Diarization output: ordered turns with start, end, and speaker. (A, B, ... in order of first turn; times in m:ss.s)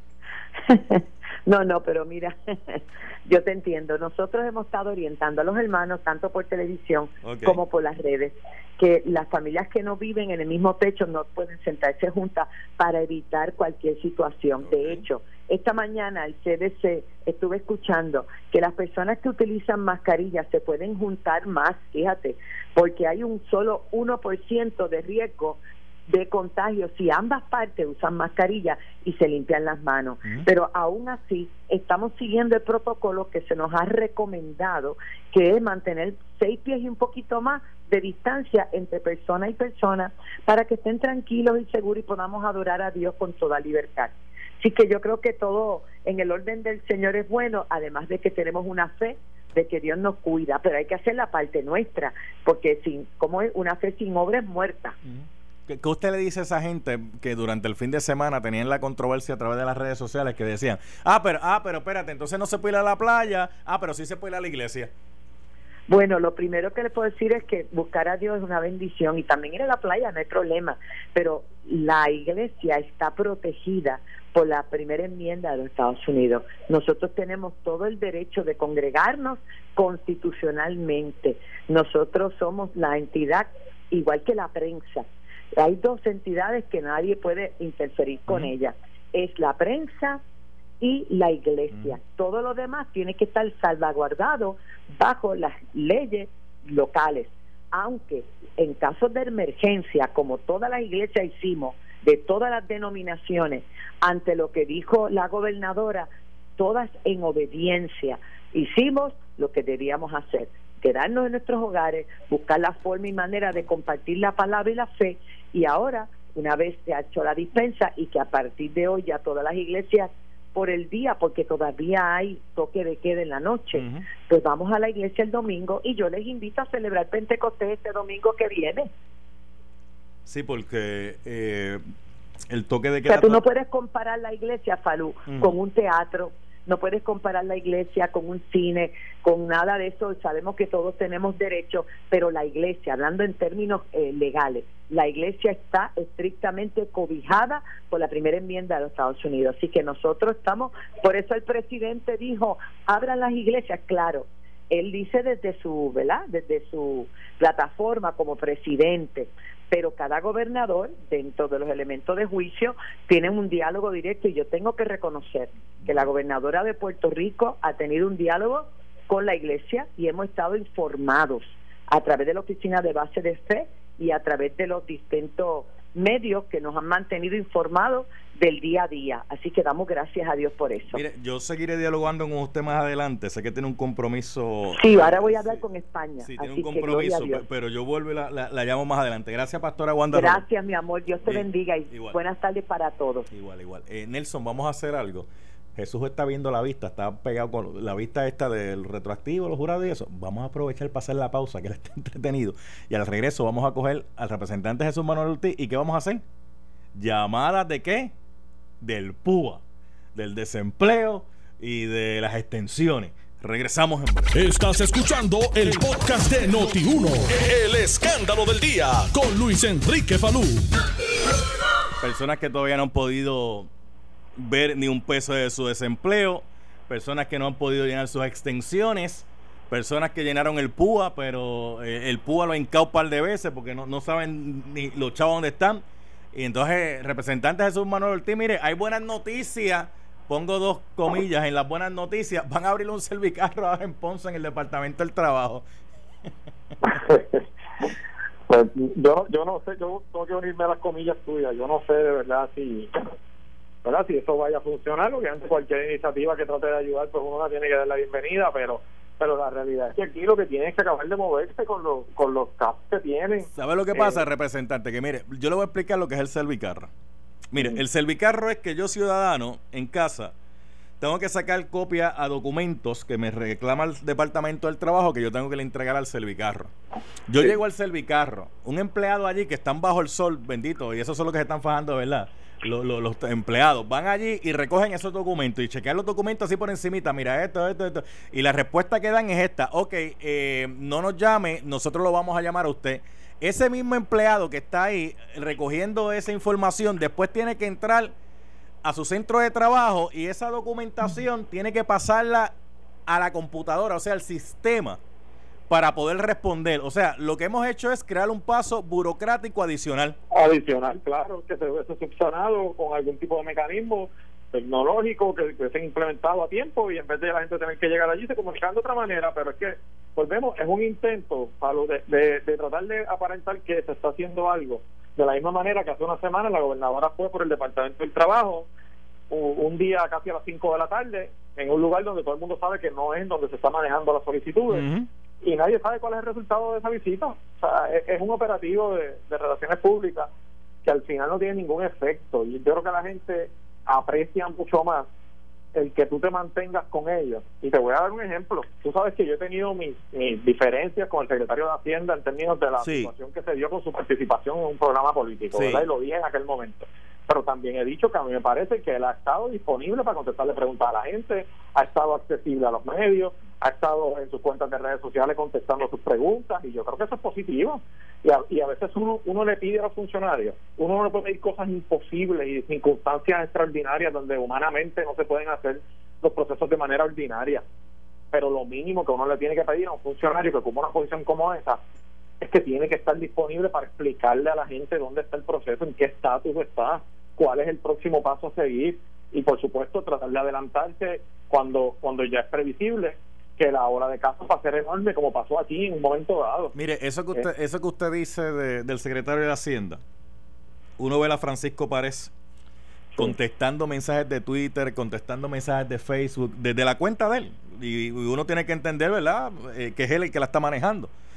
0:00.6-0:55.0 A
0:07.2-0:07.6 B
0:14.6-0:15.0 B
0:55.0-1:04.9 B
1:05.9-1:25.1 A
1:25.6-1:30.2 A
1:30.8-2:08.9 A
1:31.7-1:32.0 B
2:03.7-2:04.1 B
2:10.3-2:11.8 B
2:12.5-2:13.4 B
2:13.0-3:01.0 A
2:15.3-2:15.5 B
3:00.9-3:05.6 B
3:04.8-3:07.4 A
3:06.2-3:10.4 B
3:10.1-3:13.3 A
3:11.2-3:12.2 B
3:13.3-3:26.2 B
3:27.0-3:28.1 B
3:28.8-3:29.6 B
3:30.2-3:34.3 B
3:34.3-3:40.7 C
3:42.0-3:43.7 B
3:44.4-4:05.7 B
4:06.8-4:07.5 D
4:08.5-4:13.1 D
4:13.8-4:24.2 D
4:23.5-4:26.9 B
4:27.5-4:30.3 B
4:31.0-4:36.7 B
4:37.3-4:58.1 B
4:58.8-5:02.5 B
5:03.1-5:05.0 B
5:05.7-5:10.2 B
5:10.3-5:28.7 D
5:29.3-5:34.8 D
5:34.7-5:35.1 B
5:35.4-5:40.3 D
5:40.8-5:45.1 D
5:45.7-6:17.6 D
5:52.8-5:53.1 B
5:55.5-5:55.9 B
6:18.3-6:21.8 D
6:22.4-6:36.8 D
6:36.8-6:40.0 B
6:41.0-6:42.3 B
6:43.2-6:51.1 B